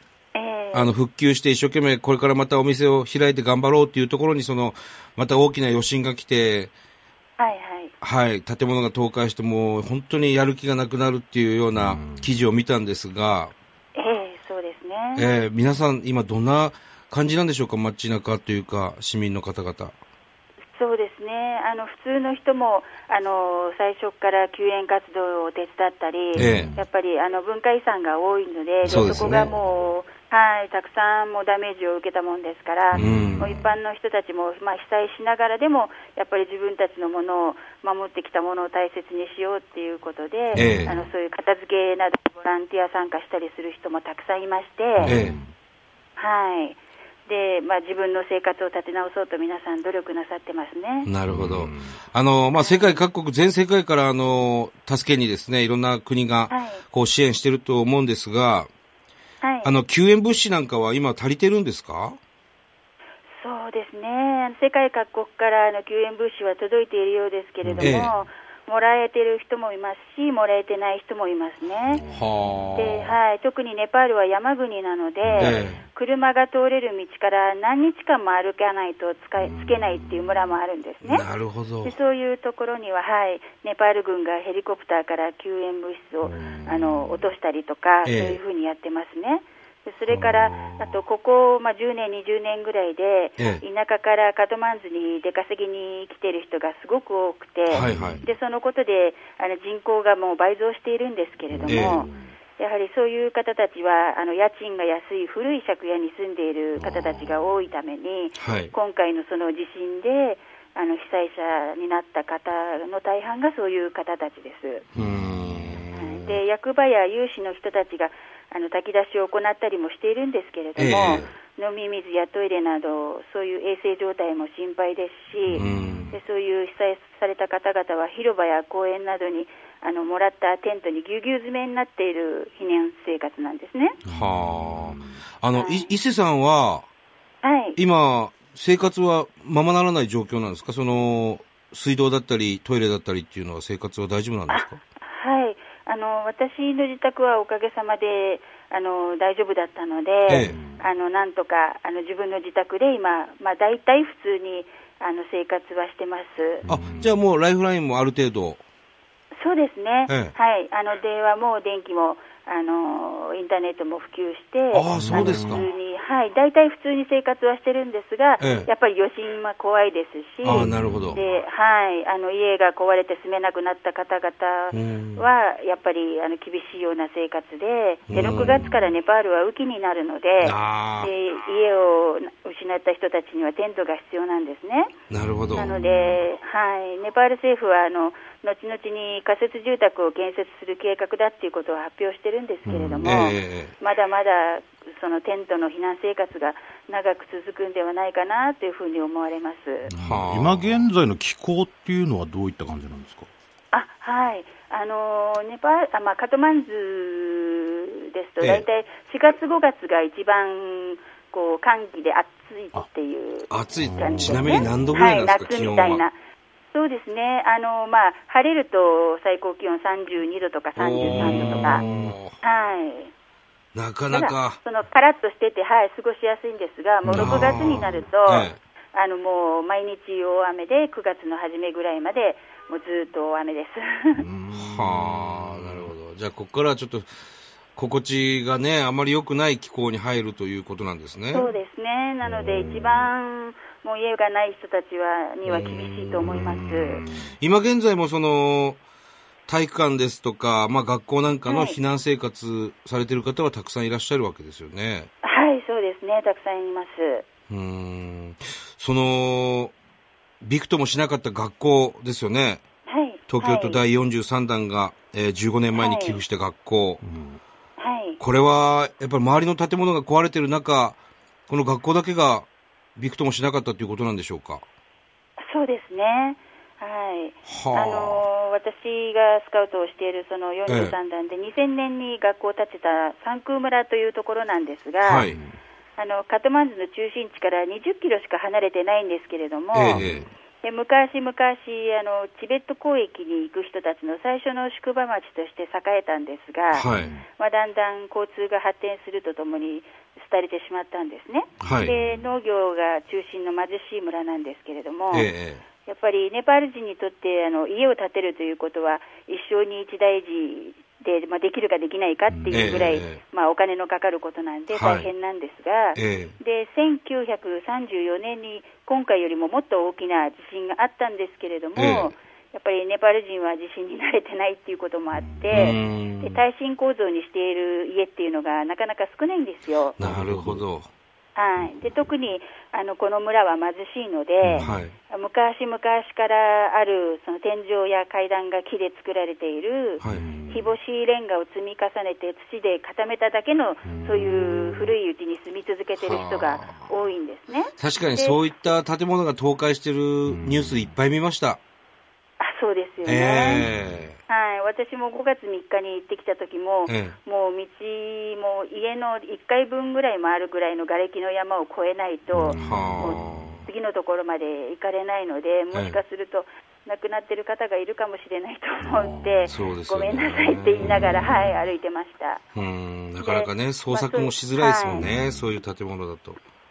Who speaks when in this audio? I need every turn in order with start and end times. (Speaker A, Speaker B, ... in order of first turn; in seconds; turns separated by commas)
Speaker A: 0.3-0.9, Speaker B: 0.7-6.7, Speaker A: 7.4-7.9, Speaker B: 8.0-13.5, Speaker C: 11.7-12.2, Speaker A: 13.9-15.3, Speaker B: 15.2-19.9, Speaker A: 20.7-45.1, Speaker B: 26.4-26.7, Speaker C: 26.4-26.8, Speaker C: 28.8-29.5, Speaker B: 28.9-29.5, Speaker B: 32.9-33.5, Speaker C: 32.9-33.6, Speaker B: 40.5-40.9, Speaker C: 40.5-41.0, Speaker C: 45.0-45.5, Speaker B: 45.0-45.4, Speaker A: 46.2-51.1, Speaker B: 51.0-58.7, Speaker C: 51.3-52.0, Speaker A: 52.6-53.0, Speaker A: 56.5-56.8, Speaker A: 59.4-59.7, Speaker B: 59.6-62.2, Speaker A: 63.4-72.0, Speaker C: 67.6-68.1, Speaker B: 67.8-68.1, Speaker B: 72.1-73.1, Speaker A: 72.8-81.2, Speaker C: 75.2-75.8, Speaker B: 75.4-75.8, Speaker B: 81.0-81.9, Speaker A: 81.8-114.8, Speaker C: 86.3-86.9, Speaker B: 88.0-88.4, Speaker B: 90.4-90.8, Speaker B: 97.7-98.2, Speaker C: 97.7-98.3, Speaker C: 101.5-102.3, Speaker B: 101.7-102.0, Speaker C: 106.8-107.2, Speaker B: 108.4-108.7, Speaker C: 114.9-115.8, Speaker B: 115.0-116.2, Speaker A: 115.9-134.0, Speaker B: 120.8-121.3, Speaker B: 125.5-126.2, Speaker C: 134.1-135.2, Speaker B: 134.1-136.8, Speaker A: 135.5-135.9, Speaker A: 137.4-137.8, Speaker B: 137.8-144.8, Speaker A: 144.5-156.6, Speaker B: 150.3-150.6, Speaker C: 150.3-150.8, Speaker C: 156.6-157.2, Speaker B: 156.7-158.6, Speaker A: 159.4-184.9, Speaker B: 160.1-160.3, Speaker B: 164.7-165.7, Speaker C: 164.9-165.7, Speaker B: 168.4-168.7, Speaker B: 170.4-171.2, Speaker C: 170.5-171.2, Speaker B: 174.7-175.3, Speaker B: 178.1-178.7, Speaker C: 178.2-178.7, Speaker B: 180.4-181.1, Speaker B: 185.1-185.7, Speaker A: 185.6-199.9, Speaker C: 185.8-186.1, Speaker C: 192.7-193.2, Speaker B: 193.0-193.7, Speaker C: 199.9-203.3, Speaker B: 199.9-200.9, Speaker A: 203.7-216.1, Speaker B: 208.4-208.7, Speaker B: 213.5-216.0, Speaker C: 213.8-215.1, Speaker A: 216.7-221.8, Speaker B: 220.8-222.4, Speaker C: 221.0-222.2, Speaker A: 222.4-223.1, Speaker B: 223.7-224.6, Speaker A: 224.1-234.2, Speaker C: 227.0-228.0, Speaker B: 227.1-228.6, Speaker C: 234.2-235.9, Speaker B: 234.5-237.1, Speaker B: 237.8-241.5, Speaker A: 241.3-247.0, Speaker C: 242.2-243.1, Speaker B: 245.4-246.4, Speaker C: 246.2-247.3, Speaker B: 247.4-248.8, Speaker B: 249.5-255.1, Speaker A: 251.5-251.8, Speaker A: 255.2-257.2, Speaker B: 257.5-259.7, Speaker B: 260.4-262.6, Speaker A: 262.9-263.8, Speaker B: 263.3-267.0, Speaker A: 265.8-266.2, Speaker C: 267.0-267.4, Speaker A: 267.8-268.2, Speaker B: 268.2-274.6, Speaker A: 275.4-285.3, Speaker B: 277.5-278.2, Speaker B: 280.7-280.9, Speaker B: 285.0-285.4, Speaker C: 285.2-285.6, Speaker A: 286.0-290.0, Speaker B: 289.7-290.2, Speaker C: 289.9-290.3, Speaker A: 290.6-305.3, Speaker B: 296.7-297.1, Speaker C: 296.9-297.2, Speaker B: 301.6-301.9, Speaker C: 301.6-302.3, Speaker B: 305.1-305.6, Speaker A: 305.9-330.0, Speaker C: 312.3-312.9, Speaker B: 312.5-313.2, Speaker B: 314.7-315.1, Speaker B: 315.9-316.3, Speaker B: 321.8-322.1, Speaker C: 325.1-325.8, Speaker B: 325.5-326.4, Speaker B: 330.0-330.9, Speaker C: 330.0-330.6, Speaker A: 331.4-348.4, Speaker C: 334.4-334.8, Speaker B: 334.6-334.9, Speaker B: 340.0-340.2, Speaker C: 340.0-340.7, Speaker C: 343.9-344.9, Speaker B: 346.0-346.9, Speaker B: 347.8-351.6, Speaker C: 350.3-350.9, Speaker A: 352.4-353.7, Speaker B: 353.0-354.2, Speaker C: 353.7-354.0, Speaker A: 354.3-372.4, Speaker B: 356.9-357.1, Speaker C: 362.3-363.2, Speaker B: 362.5-363.6, Speaker B: 365.7-366.0, Speaker C: 368.8-369.7, Speaker B: 369.5-371.1, Speaker C: 370.8-371.5, Speaker B: 372.5-376.4, Speaker A: 373.2-375.1, Speaker C: 374.9-375.5